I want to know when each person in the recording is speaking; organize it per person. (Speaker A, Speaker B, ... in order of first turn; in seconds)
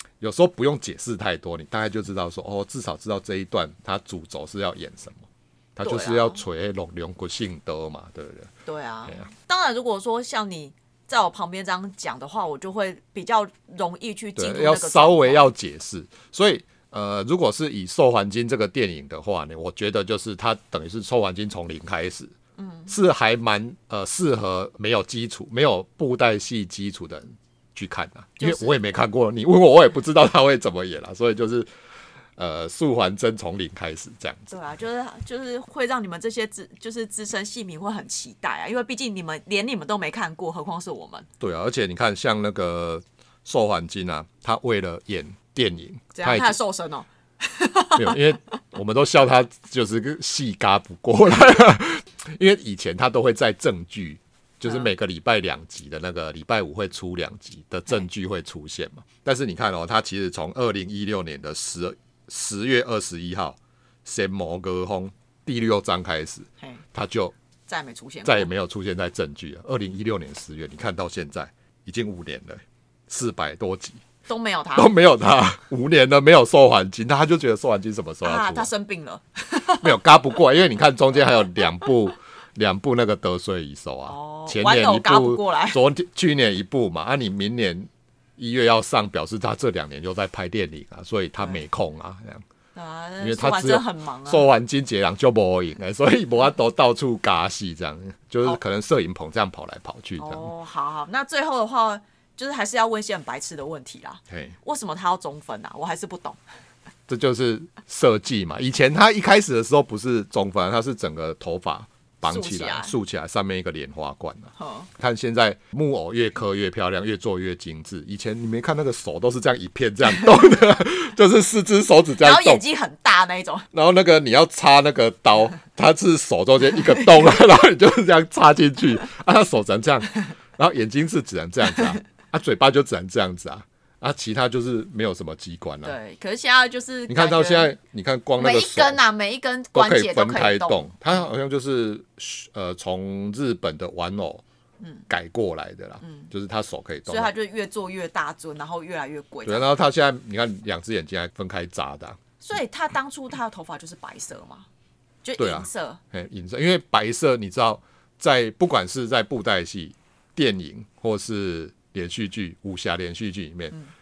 Speaker A: 0.2-8.5, 14.4-22.3, 22.9-31.7, 32.4-34.5, 41.4-46.6, 47.9-67.3, 68.2-74.0, 74.8-78.7, 79.8-92.4, 93.2-100.5, 104.3-104.5, 107.1-122.6, 123.7-135.9, 137.1-139.0, 139.7-144.4, 145.1-147.3, 149.4-152.2, 155.4-163.7
Speaker B: 5.8-6.4, 8.7-15.5, 22.6-22.9, 28.4-28.7, 34.5-41.3, 46.1-48.2, 67.7-68.5, 74.3-74.9, 78.2-80.0, 84.1-85.8, 92.7-94.5, 100.2-106.4, 112.2-112.9, 114.6-114.9, 122.2-123.7, 135.8-137.7, 138.4-140.9, 146.0-146.3, 147.1-149.7, 152.4-154.7, 155.2-156.0